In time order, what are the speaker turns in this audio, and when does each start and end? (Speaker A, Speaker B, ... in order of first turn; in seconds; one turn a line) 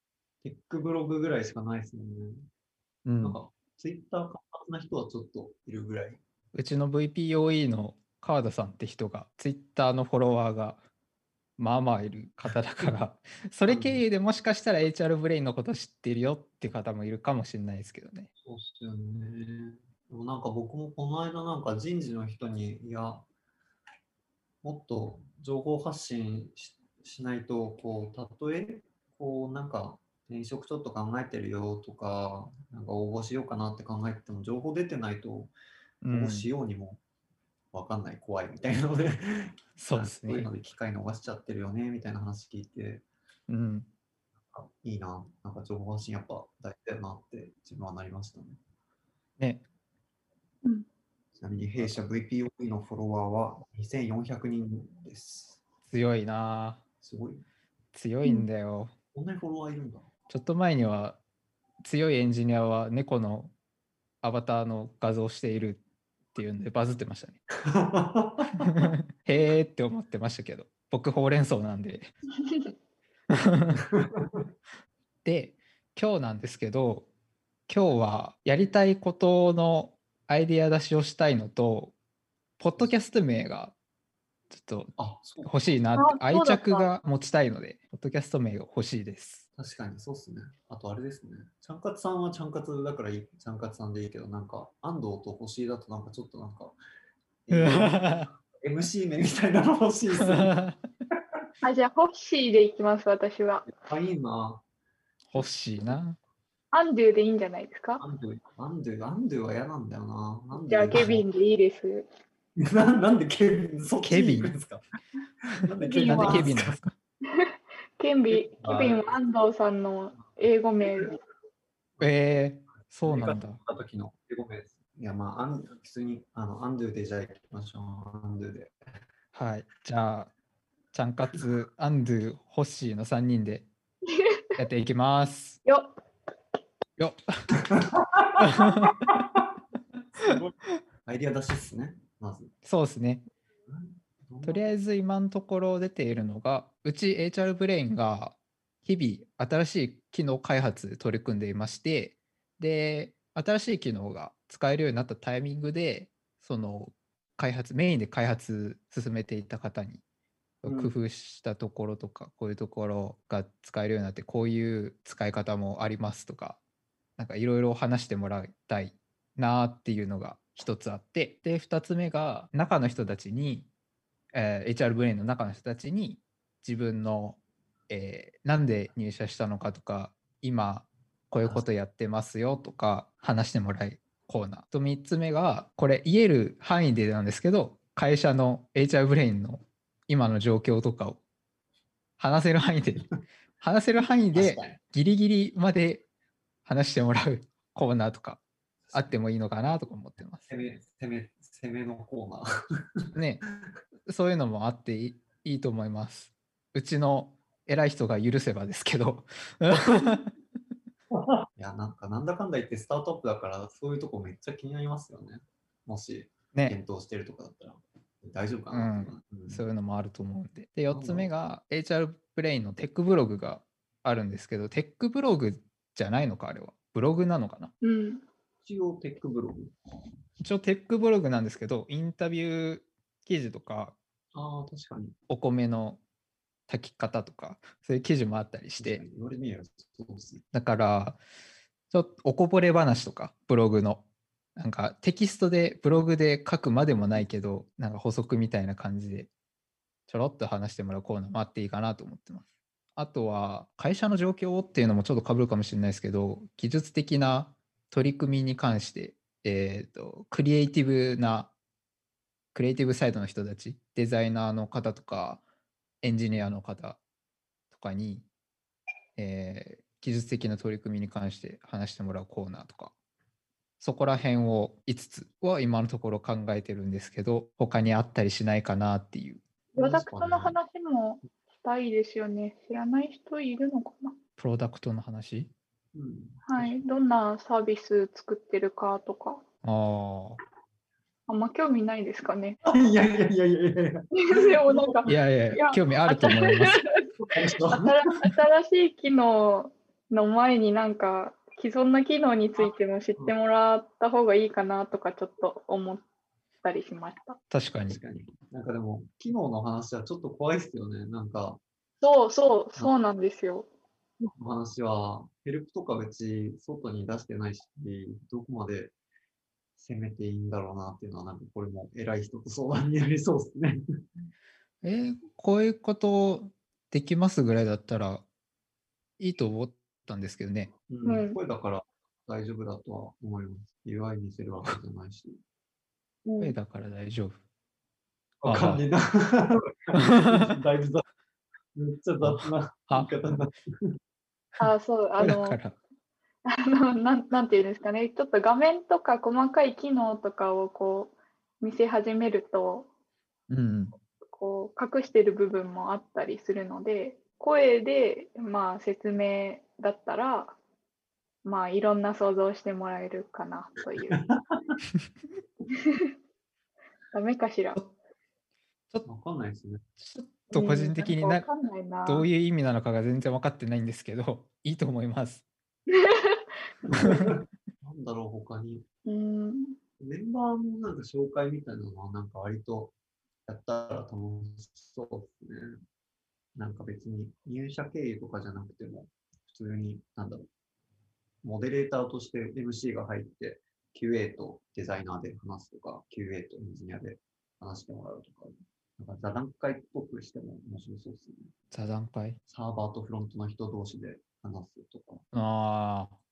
Speaker A: 0.4-2.5
Speaker B: 3.0-3.4
Speaker A: 3.2-6.2
Speaker B: 6.5-10.8
Speaker B: 11.6-18.3
Speaker A: 13.7-14.0
Speaker A: 18.4-23.2
Speaker A: 24.6-35.5
Speaker B: 36.0-36.5
Speaker A: 36.1-37.0
Speaker A: 37.7-43.0
Speaker B: 39.8-40.5
Speaker B: 43.5-43.9
Speaker A: 44.5-48.6
Speaker B: 49.4-49.6
Speaker A: 51.4-55.6
Speaker B: 55.9-56.8
Speaker A: 57.0-57.5
Speaker B: 57.9-58.9
Speaker A: 59.1-60.1
Speaker B: 60.3-61.2
Speaker B: 61.8-63.5
Speaker B: 64.2-65.8
Speaker B: 66.3-67.4
Speaker A: 67.7-68.8
Speaker B: 68.6-72.1
Speaker B: 73.3-73.8
Speaker A: 74.0-74.4
Speaker B: 75.2-77.1
Speaker B: 77.7-82.0
Speaker B: 82.6-83.8
Speaker B: 84.5-89.5
Speaker A: 85.0-85.5
Speaker C: 86.0-86.9
Speaker A: 89.6-96.8
Speaker A: 97.5-100.6
Speaker B: 97.5-98.3
Speaker B: 100.2-100.8
Speaker C: 101.6-103.7
Speaker A: 103.7-104.6
Speaker B: 105.3-106.2
Speaker C: 106.7-108.0
Speaker A: 108.0-111.2
Speaker C: 110.5-112.1
Speaker A: 112.6-114.8
Speaker B: 114.0-114.6
Speaker A: 115.6-116.8
Speaker C: 115.8-116.5
Speaker B: 115.9-116.9
Speaker C: 117.3-121.2
Speaker A: 118.3-119.1
Speaker B: 122.0-123.6
Speaker A: 123.0-128.7
Speaker B: 129.3-130.3
Speaker B: 130.9-133.7
Speaker C: 134.1-134.6
Speaker B: 134.6-135.6
Speaker B: 137.0-137.5
Speaker A: 137.9-138.4
Speaker B: 138.4-139.2
Speaker A: 140.2-140.5
Speaker A: 141.1-142.5
Speaker B: 142.6-143.3
Speaker A: 143.7-144.7
Speaker B: 144.4-160.0
Speaker B: 160.6-166.6
Speaker A: 160.7-160.9
Speaker B: 167.2-173.7
Speaker B: 174.3-177.4
Speaker B: 177.9-191.2
Speaker B: 192.2-193.1
Speaker B: 193.6-196.1
Speaker A: 194.3-194.8
Speaker B: 196.7-198.4
Speaker A: 198.9-199.1
Speaker B: 198.9-200.5
Speaker A: 200.5-202.5
Speaker B: 203.2-203.4
Speaker B: 204.1-210.3
Speaker A: 211.1-219.6
Speaker B: 216.5-216.8
Speaker B: 218.7-227.7
Speaker A: 220.9-221.3
Speaker C: 227.8-228.2
Speaker A: 228.6-229.7
Speaker B: 230.4-234.0
Speaker A: 234.3-235.2
Speaker B: 235.3-236.0
Speaker B: 236.7-239.0
Speaker A: 238.8-240.4
Speaker B: 240.5-241.2
Speaker B: 241.9-244.1
Speaker B: 244.6-249.3
Speaker B: 250.1-252.4
Speaker B: 253.0-261.5
Speaker B: 262.5-265.4
Speaker B: 266.0-267.0
Speaker B: 267.7-268.3
Speaker B: 269.2-272.9
Speaker B: 273.8-279.4
Speaker C: 279.7-284.2
Speaker A: 279.8-280.6
Speaker B: 284.4-285.5
Speaker A: 285.9-286.8
Speaker C: 286.5-289.4
Speaker B: 289.6-290.4
Speaker C: 291.3-292.6
Speaker A: 292.7-295.2
Speaker C: 294.3-296.9
Speaker B: 295.1-296.8
Speaker A: 297.2-298.0
Speaker C: 297.7-306.0
Speaker A: 302.6-303.3
Speaker C: 306.6-307.4
Speaker B: 307.5-308.0
Speaker A: 307.9-311.6
Speaker C: 312.0-313.7
Speaker A: 314.4-318.9
Speaker A: 319.8-323.8
Speaker B: 324.8-328.2
Speaker B: 329.2-330.7
Speaker A: 330.9-335.4
Speaker C: 331.0-331.4
Speaker C: 336.3-336.6
Speaker B: 336.4-337.4
Speaker A: 338.4-341.0
Speaker B: 338.4-338.9
Speaker B: 340.1-340.5
Speaker A: 341.8-343.9
Speaker B: 342.2-343.1
Speaker C: 344.6-345.6
Speaker B: 345.2-345.8
Speaker C: 346.5-352.9
Speaker B: 353.5-353.9
Speaker C: 354.3-360.6
Speaker C: 361.4-364.2
Speaker A: 364.1-364.8
Speaker C: 365.7-366.1
Speaker C: 367.1-367.8
Speaker A: 369.1-369.8
Speaker B: 370.0-371.4
Speaker C: 370.5-372.3
Speaker B: 372.1-375.4
Speaker C: 375.9-376.5
Speaker A: 376.9-378.9
Speaker B: 376.9-377.3
Speaker C: 379.1-379.8
Speaker A: 380.0-382.9
Speaker A: 383.5-385.7
Speaker A: 386.6-390.5
Speaker A: 391.4-401.5
Speaker B: 401.7-402.4
Speaker A: 402.5-405.2
Speaker B: 405.3-406.2